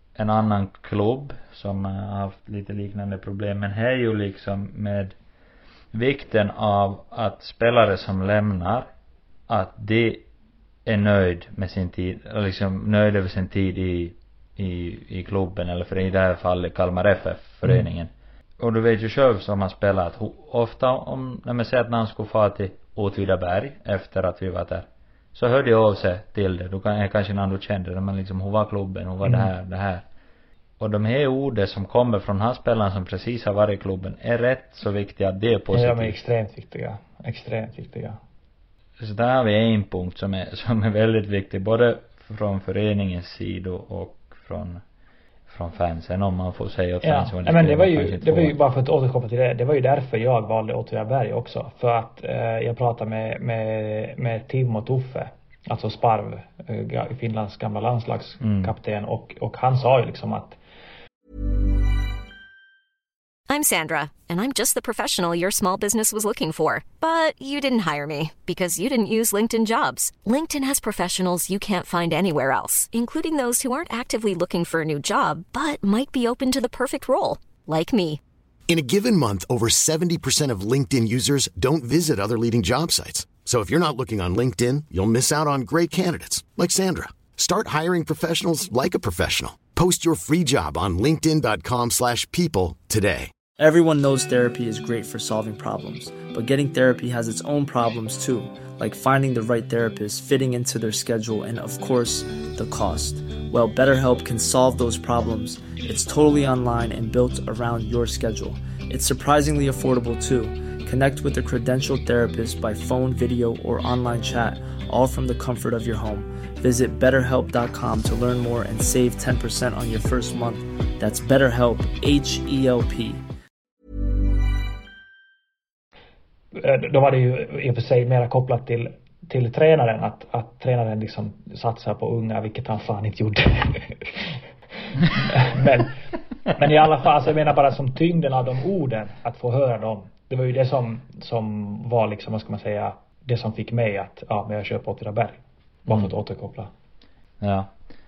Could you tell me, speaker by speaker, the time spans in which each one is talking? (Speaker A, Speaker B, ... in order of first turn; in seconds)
Speaker A: 0.2-5.1, 5.9-8.9, 9.5-10.2, 10.9-30.0, 30.8-36.2, 39.0-44.8, 45.5-48.5, 58.4-58.7, 145.9-146.1, 147.4-147.7
Speaker B: 29.2-29.5, 35.7-38.2, 47.0-60.6, 126.5-134.3, 135.1-135.9, 136.6-146.7
Speaker C: 63.5-78.2
Speaker D: 78.7-93.3
Speaker E: 93.6-123.3